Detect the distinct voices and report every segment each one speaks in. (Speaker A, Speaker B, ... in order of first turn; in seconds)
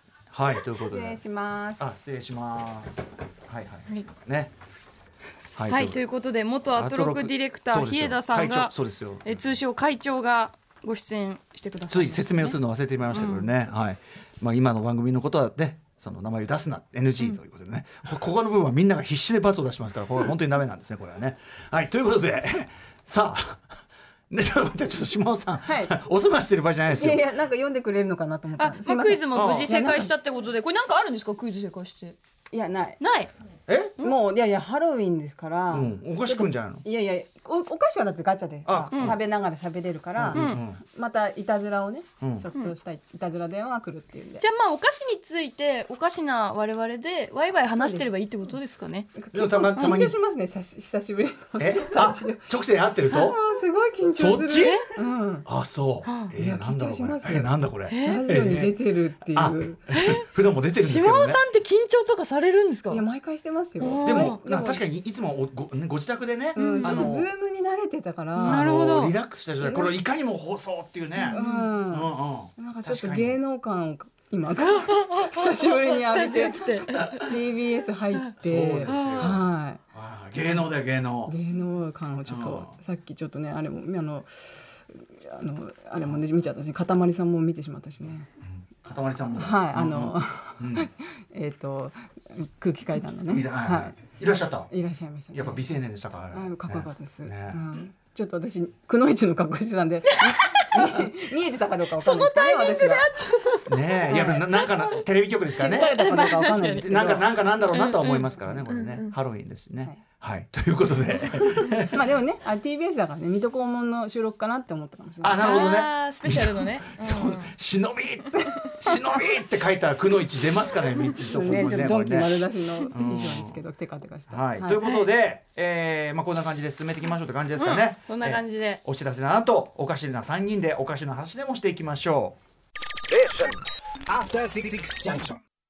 Speaker A: 0.3-1.2, 1.8-2.9, 3.5-4.5, 5.5-6.0, 6.7-9.4, 11.9-23.6, 24.3-27.3, 29.3-29.7, 33.7-33.9, 35.7-36.8, 38.6-39.2, 40.1-40.8, 42.2-42.5, 49.3-50.1, 51.6-53.4, 54.1-54.8, 55.5-61.4, 64.0-67.3, 68.4-73.4, 78.4-79.4, 79.9-81.3, 82.2-82.7, 88.4-90.9, 93.1-94.7, 95.3-97.6, 103.7-106.0, 106.8-112.0, 115.2-123.6, 124.3-132.4
Speaker B: 0.9-1.9, 25.6-25.9, 26.9-30.1, 32.5-33.0, 34.0-44.4, 47.7-48.1, 49.1-52.5, 53.1-55.5, 56.3-59.8, 62.9-64.8, 66.5-68.7, 69.6-69.9, 71.3-79.8, 81.3-88.3, 89.3-94.0, 94.7-95.6, 96.3-103.1, 104.1-104.4, 105.6-107.2, 111.7-115.7, 121.3-124.8
Speaker C: 5.7-12.6, 13.1-13.5, 28.6-32.2, 33.0-33.3, 40.3-40.6, 44.4-49.1, 54.6-54.9, 56.0-56.3, 57.9-58.2, 59.9-60.3, 60.8-63.0, 63.8-64.4, 66.5-67.1, 68.4-69.2, 71.2-71.7, 74.6-77.3, 78.9-79.4, 100.2-101.1, 102.0-105.0, 105.7-107.0, 107.7-109.1, 115.4-117.5, 124.8-125.1, 127.5-128.8